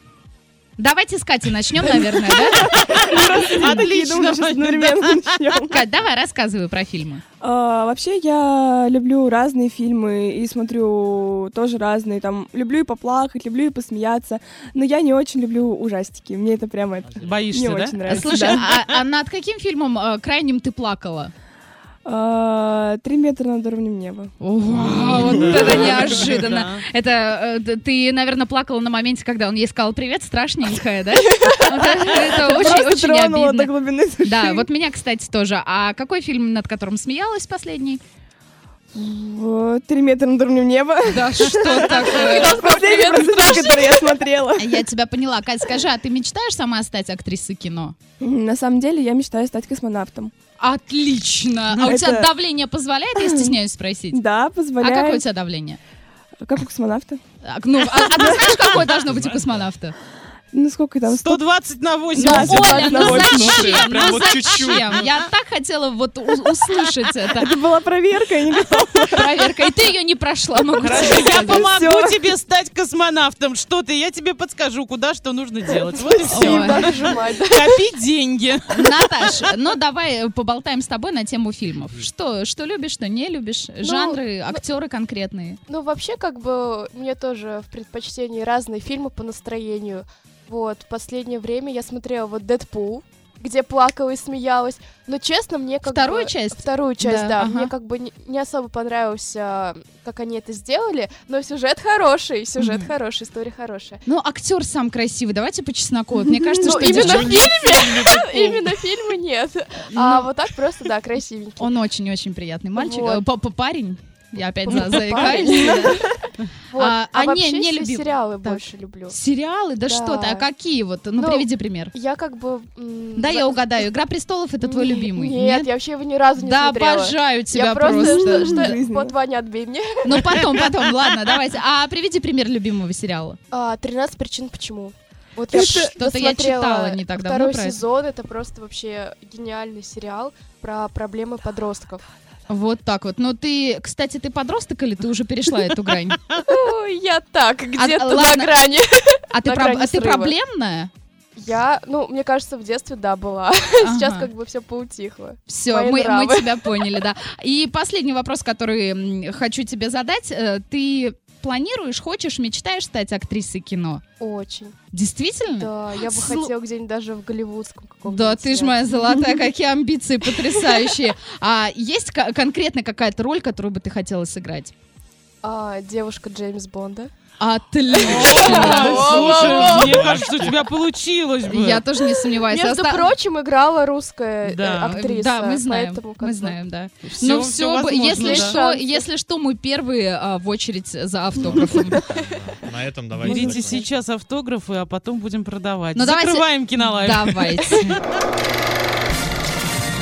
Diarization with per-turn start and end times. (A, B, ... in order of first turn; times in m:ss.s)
0:00.8-0:02.6 A
0:02.4-0:05.5 B
0:02.5-0:05.8 C
0:05.7-0:07.2 A
0:07.4-0:18.7 C
0:17.2-0:19.0 B
0:18.1-0:21.3 A
0:22.0-0:24.3 C
0:24.4-0:38.0 A
0:25.5-0:26.0 C
0:25.5-0:26.8 B
0:31.9-0:34.7 C
0:38.9-0:44.8 C
0:41.1-0:42.6 A
0:41.7-0:44.1 D
0:44.6-0:48.0 A
0:48.2-0:50.3 C
0:50.6-0:54.2 A
0:51.8-0:52.3 C
0:53.2-0:53.6 C
0:54.1-0:55.2 C
0:54.8-0:55.8 A
0:56.4-0:57.2 C
0:57.4-1:00.0 A
0:58.1-0:58.6 C
0:58.9-0:59.7 E
1:00.5-1:01.4 C
1:01.1-1:04.9 B
1:02.1-1:03.9 C
1:02.2-1:07.5 A
1:03.3-1:05.0 E
1:07.3-1:09.5 C
1:09.1-1:11.7 A
1:10.8-1:12.3 C
1:10.8-1:19.5 B
1:16.1-1:17.7 D
1:16.3-1:17.0 A
1:18.7-1:25.6 A
1:23.8-1:24.6 D
1:25.7-1:44.0 D
1:35.9-1:37.7 A
1:42.6-1:42.9 A
1:44.1-1:47.6 A
1:46.4-1:46.8 C
1:46.6-1:51.7 D
1:46.9-1:48.6 E
1:49.9-1:50.3 A
1:51.6-1:56.1 A
1:52.8-1:53.2 D
1:54.6-1:59.2 D
1:56.8-2:01.9 A
1:59.8-2:00.5 D
2:01.2-2:03.9 D
2:03.2-2:05.7 A
2:04.6-2:10.6 D
2:06.4-2:08.8 A
2:07.9-2:09.1 C
2:10.0-2:13.4 A
2:13.5-2:22.0 D
2:15.5-2:17.8 A
2:15.6-2:15.9 C
2:22.5-2:26.2 A
2:26.5-2:30.3 D
2:27.8-2:28.6 A
2:29.3-2:30.9 A
2:31.4-2:36.7 D
2:33.8-2:34.3 A
2:35.5-2:44.0 A
2:44.2-2:44.8 D
2:44.9-2:46.5 A
2:45.5-2:48.9 D
2:48.1-2:54.7 A
2:55.4-2:57.1 D
2:57.4-2:59.8 A
2:57.9-3:00.3 D
2:58.1-3:01.8 B
2:58.1-3:00.7 E
3:01.5-3:03.1 A
3:01.5-3:01.8 E
3:02.3-3:06.6 D
3:04.4-3:05.0 B
3:04.9-3:12.0 A
3:07.0-3:08.6 B
3:08.1-3:09.1 D
3:11.4-3:13.9 E
3:11.7-3:12.2 D
3:13.2-3:17.9 B
3:13.3-3:13.8 D
3:16.0-3:18.0 A